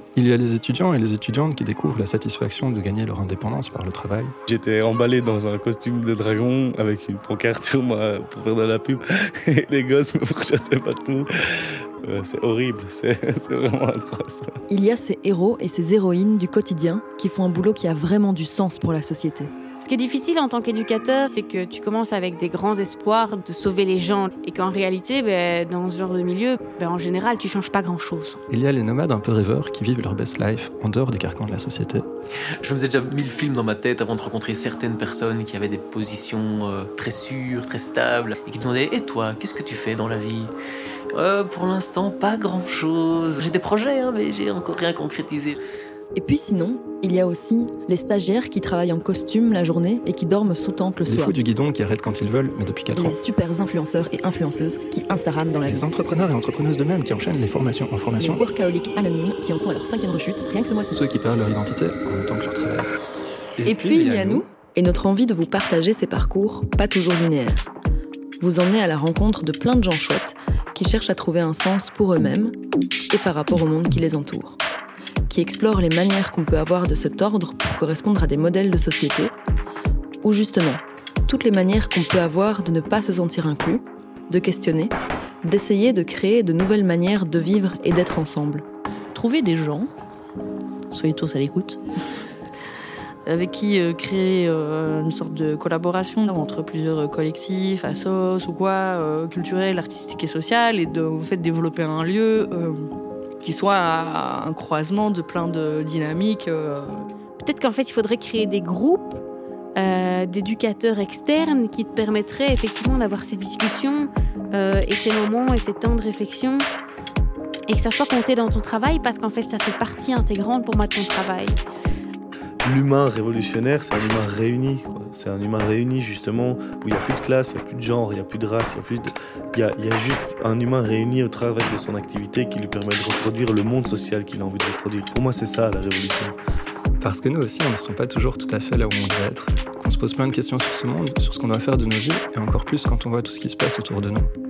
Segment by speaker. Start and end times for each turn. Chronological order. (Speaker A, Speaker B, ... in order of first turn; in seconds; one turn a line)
Speaker A: 0.1-4.3
Speaker B: 4.5-14.5
Speaker C: 14.7-19.5
Speaker D: 19.8-28.4
Speaker A: 28.5-32.1
Speaker E: 32.6-40.5
Speaker E: 41.1-45.6
Speaker C: 46.1-51.3
Speaker A: 51.1-53.2
Speaker C: 53.0-55.8
Speaker A: 55.7-58.4
Speaker C: 58.2-61.0
Speaker A: 60.9-62.9
Speaker A: 63.6-64.5
Speaker C: 63.7-67.7
Speaker C: 68.4-72.6
Speaker C: 73.1-74.6
Speaker C: 75.3-79.4
Speaker C: 80.2-88.7
Speaker F: 89.1-89.9
Speaker F: 90.9-91.8
Speaker F: 93.3-102.9
Speaker F: 103.4-107.1
Speaker D: 107.4-109.2
Speaker D: 109.8-116.7
Speaker D: 117.7-121.6
Speaker B: 122.7-136.3
Speaker A: 137.0-144.3